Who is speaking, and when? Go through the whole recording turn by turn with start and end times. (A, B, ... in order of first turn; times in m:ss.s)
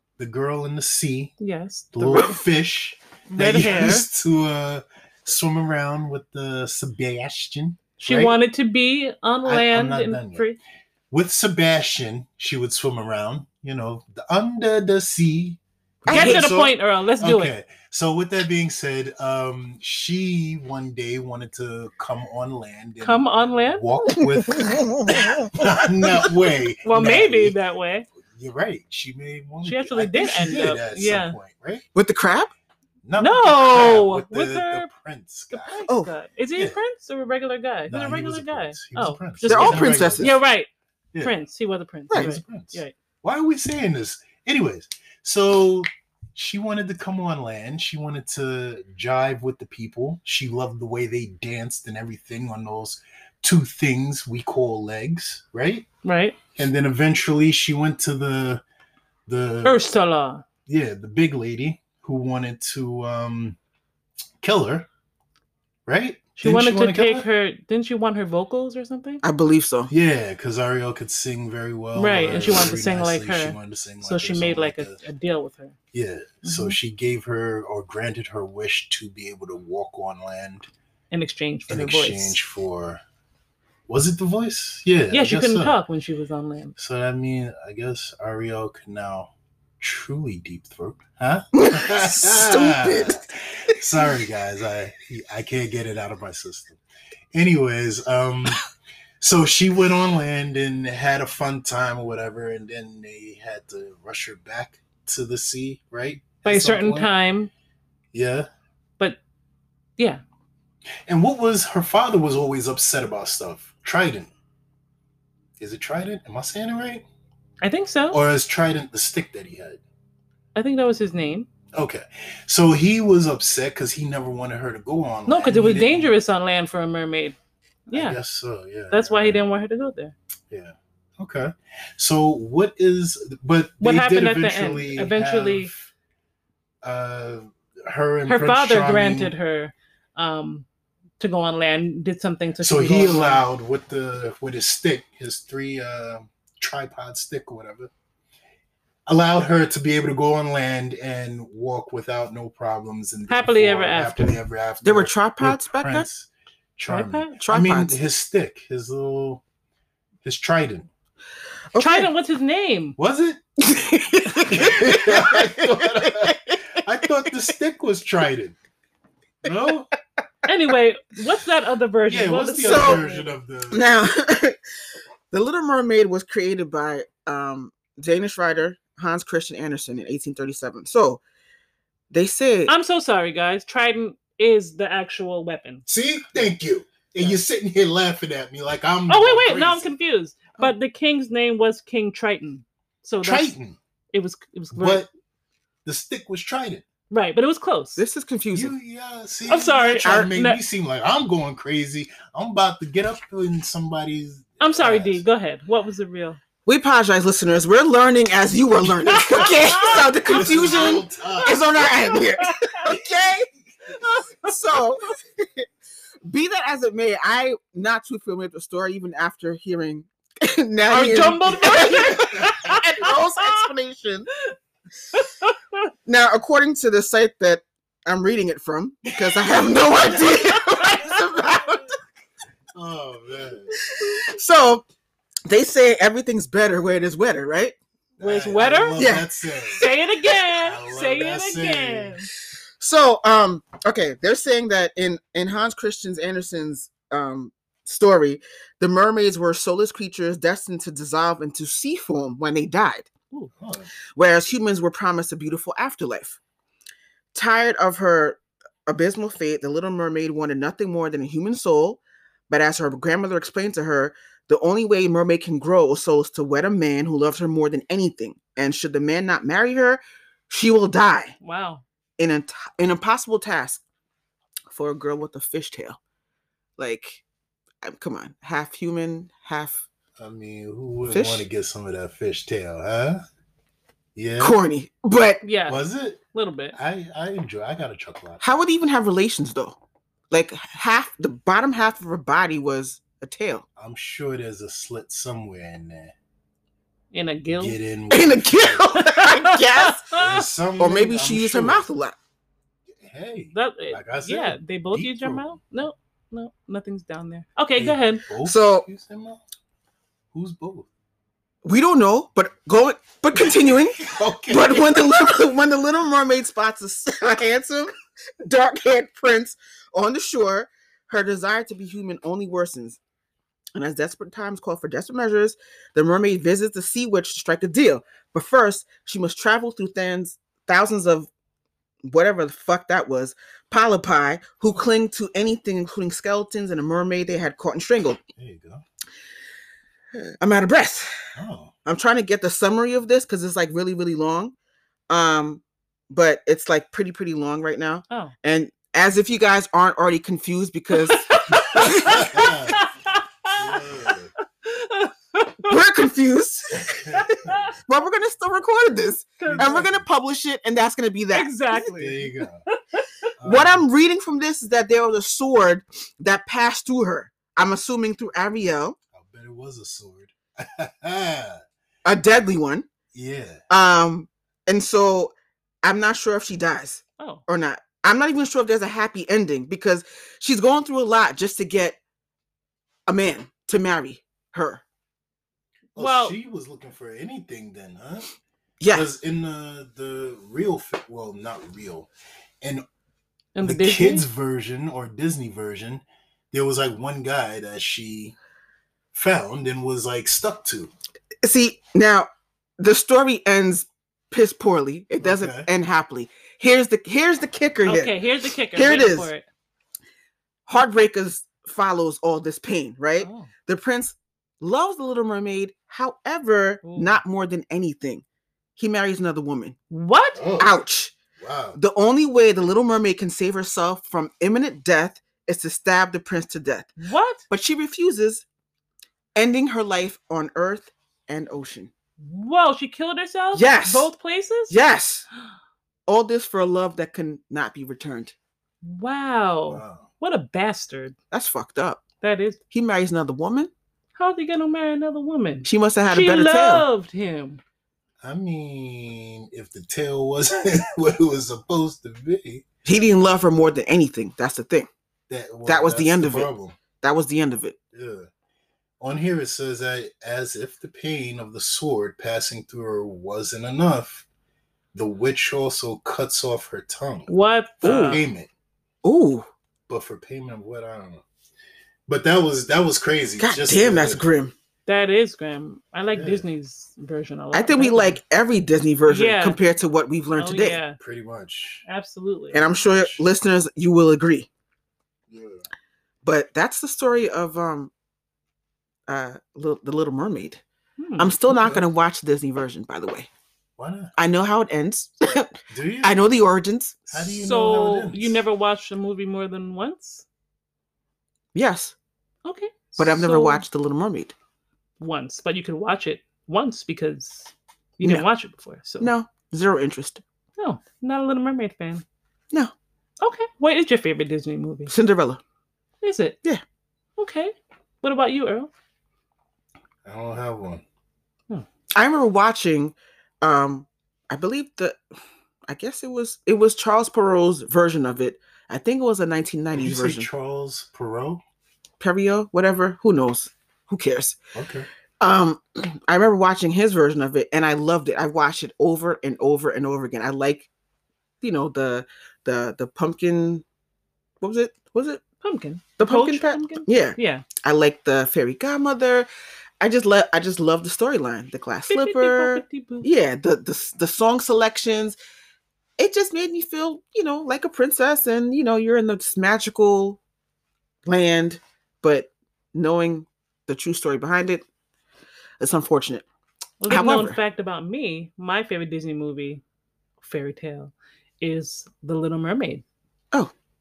0:00.2-0:01.3 A
0:01.4-0:02.4 B
0:01.9-0:08.4 A
0:03.3-0:04.0 B
0:08.0-0:10.6 B
0:09.4-0:10.4 A
0:11.1-0:27.6 A
0:16.0-0:16.5 C
0:16.1-0:17.5 B
0:23.0-0:23.8 B
0:24.1-0:26.3 C
0:26.8-0:28.1 B
0:28.2-0:31.8 A
0:29.6-0:31.4 B
0:31.9-0:32.5 C
0:33.0-0:35.8 A
0:33.2-0:34.9 B
0:35.5-0:40.7 B
0:35.9-0:36.1 C
0:37.9-0:40.4 A
0:39.4-0:40.4 C
0:41.2-0:42.9 B
0:42.1-0:42.4 C
0:42.1-0:55.9 A
0:56.0-0:56.4 B
0:56.6-0:58.6 A
0:59.3-0:59.8 A
0:59.6-1:00.4 B
1:00.7-1:03.6 A
1:04.4-1:04.9 A
1:05.8-1:07.2 A
1:06.4-1:09.2 B
1:09.2-1:09.9 C
1:09.9-1:15.0 A
1:11.9-1:15.8 B
1:15.9-1:20.7 A
1:16.4-1:16.8 B
1:21.1-1:22.4 B
1:21.7-1:23.0 A
1:23.9-1:25.8 A
1:25.1-1:26.7 B
1:26.8-1:36.8 A
1:31.5-1:33.3 C
1:37.3-1:38.6 A
1:39.2-1:47.1 A
1:46.4-1:47.5 B
1:48.1-1:48.5 A
1:51.1-1:54.3 A
1:55.6-1:57.0 A
1:57.6-1:58.2 B
1:58.1-1:59.8 A
2:00.5-2:01.5 B
2:01.7-2:06.1 A
2:05.3-2:07.4 B
2:07.9-2:08.2 B
2:07.9-2:09.4 A
2:08.9-2:10.1 B
2:10.5-2:15.9 A
2:13.8-2:15.7 B
2:16.8-2:19.3 A
2:18.3-2:20.6 B
2:21.2-2:23.4 B
2:22.6-2:27.9 A
2:29.1-2:39.4 A
2:33.3-2:34.4 B
2:34.8-2:36.1 C
2:36.9-2:37.4 B
2:37.4-2:38.0 C
2:40.2-2:40.9 A
2:41.7-2:42.1 C
2:41.8-2:43.0 B
2:43.0-2:43.4 A
2:43.6-2:46.6 C
2:44.4-2:48.6 A
2:49.4-2:49.9 A
2:50.4-2:53.3 B
2:52.1-2:53.8 A
2:52.6-2:53.0 C
2:53.7-2:54.6 C
2:55.3-3:01.2 C
3:02.1-3:02.7 C
3:02.7-3:05.8 B
3:05.8-3:09.9 A
3:09.1-3:13.5 B
3:13.2-3:13.8 A
3:14.1-3:15.0 B
3:14.7-3:15.1 A
3:15.8-3:16.8 A
3:17.1-3:18.0 B
3:18.0-3:18.8 C
3:18.5-3:25.2 A
3:19.5-3:20.6 B
3:20.0-3:20.3 C
3:24.6-3:26.4 B
3:26.6-3:33.5 C
3:29.3-3:31.0 B
3:30.3-3:31.7 A
3:32.1-3:32.6 B
3:34.0-3:35.6 C
3:36.2-3:44.3 C
3:40.9-3:43.7 B
3:41.8-3:42.6 A
3:45.1-3:45.8 B
3:46.0-3:51.8 C
3:49.1-3:50.3 A
3:50.9-3:51.1 B
3:52.7-3:53.7 A
3:53.7-3:54.8 C
3:55.5-3:57.7 C
3:58.2-3:59.9 A
3:58.2-3:59.0 B
3:59.0-4:00.1 C
3:59.8-4:02.3 B
4:00.6-4:02.2 A
4:02.8-4:13.1 C
4:13.6-4:13.9 A
4:14.2-4:16.4 C
4:17.3-4:31.4 C
4:31.4-4:31.8 B
4:32.2-4:33.8 C
4:34.7-4:36.0 C
4:36.8-4:37.2 C
4:37.8-4:39.8 C
4:40.2-4:43.2 A
4:41.1-4:41.4 C
4:44.2-4:44.6 A
4:44.4-4:45.4 C
4:45.4-4:46.8 B
4:45.7-4:46.2 A
4:46.7-4:48.4 A
4:48.4-4:49.8 C
4:50.3-4:53.6 C
4:53.8-4:56.1 A
4:57.1-4:57.8 B
4:57.5-4:58.9 A
4:58.1-5:00.0 C
4:59.0-5:00.4 B
5:00.1-5:01.8 A
5:00.8-5:02.2 C
5:03.0-5:05.4 A
5:03.5-5:08.2 B
5:07.8-5:09.4 A
5:08.4-5:08.9 C
5:10.3-5:10.9 A
5:11.6-5:17.9 C
5:13.3-5:15.1 A
5:18.4-5:23.0 C
5:23.7-5:31.3 C
5:32.0-5:38.2 C
5:38.4-5:38.8 A
5:40.1-5:41.1 C
5:41.4-5:41.7 A
5:41.8-5:44.5 C
5:45.1-5:52.4 C
5:50.9-5:53.8 B
5:51.7-5:52.8 A
5:53.5-5:54.3 A
5:54.6-5:55.8 B
5:55.6-5:57.1 C
5:56.8-5:57.7 A
5:57.2-5:57.7 B
5:57.8-6:01.5 C
5:59.4-5:59.8 B
5:59.4-6:00.0 A
6:01.3-6:03.3 B
6:01.7-6:02.6 A
6:03.4-6:03.8 A
6:03.4-6:09.0 C
6:09.1-6:11.6 A
6:12.0-6:12.9 C
6:13.1-6:13.6 A
6:13.7-6:22.0 C
6:23.1-6:24.8 C
6:26.0-6:26.4 B
6:26.0-6:28.2 A
6:28.8-6:29.1 C
6:28.9-6:32.1 A
6:33.5-6:34.2 B
6:33.6-6:38.3 A
6:39.1-6:40.9 A
6:41.4-6:48.2 C
6:45.2-6:45.7 A
6:47.8-6:49.4 B
6:48.7-6:49.3 C
6:50.7-6:58.2 C
6:53.2-6:53.5 B
6:56.8-6:57.2 B
6:58.8-6:59.8 C
6:59.9-7:00.4 B
7:00.3-7:00.7 A
7:00.6-7:01.1 C
7:01.4-7:01.8 A
7:01.8-7:06.9 C
7:07.0-7:07.4 B
7:07.5-7:08.4 C
7:09.4-7:11.9 C
7:12.2-7:14.8 B
7:13.5-7:14.1 C
7:14.7-7:15.2 C
7:16.1-7:18.3 C
7:18.8-7:21.1 B
7:19.7-7:20.1 A
7:21.3-7:22.0 C
7:22.2-7:22.6 B
7:22.7-7:23.7 C
7:24.2-7:27.6 B
7:25.6-7:26.8 C
7:28.2-7:32.6 A
7:32.8-7:34.9 C
7:35.3-7:36.8 A
7:35.6-7:37.8 C
7:37.9-7:38.3 A
7:39.0-7:44.2 A
7:44.9-7:48.5 A
7:47.3-7:48.2 B
7:47.8-7:48.2 C
7:49.0-7:49.5 C
7:49.9-7:51.2 A
7:52.1-7:54.2 A
7:53.4-7:54.5 C
7:54.8-7:58.2 B
7:56.1-7:56.4 A
7:57.5-8:00.8 C
7:59.1-7:59.6 B
8:00.4-8:01.0 B
8:01.0-8:01.8 A
8:01.8-8:02.6 B
8:02.5-8:03.2 A
8:02.5-8:04.5 C
8:05.3-8:05.6 A
8:06.2-8:07.9 C
8:09.1-8:10.6 C
8:11.0-8:11.6 B
8:11.2-8:13.3 C
8:13.8-8:14.1 A
8:14.2-8:17.0 C
8:15.7-8:16.4 A
8:17.1-8:20.2 B
8:17.1-8:18.4 A
8:21.5-8:21.9 C
8:22.4-8:23.6 B
8:23.0-8:24.3 C
8:25.0-8:29.1 B
8:29.0-8:30.2 C
8:30.6-8:32.0 B
8:33.2-8:34.9 B
8:34.9-8:35.4 C
8:36.0-8:36.4 B
8:37.2-8:38.7 B
8:40.0-8:40.8 A
8:42.0-8:45.0 C
8:45.7-8:50.3 C
8:49.8-8:51.4 A
8:52.0-8:54.4 C
8:54.5-8:54.9 A
8:55.2-9:00.7 C
9:01.4-9:03.6 C
9:04.4-9:05.2 C
9:05.4-9:07.4 B
9:06.0-9:09.3 C
9:09.8-9:15.2 C
9:11.9-9:13.1 B
9:16.0-9:20.2 C
9:21.0-9:24.6 C
9:25.6-9:26.2 C
9:26.8-9:29.6 B
9:26.9-9:27.4 C
9:30.2-9:32.8 B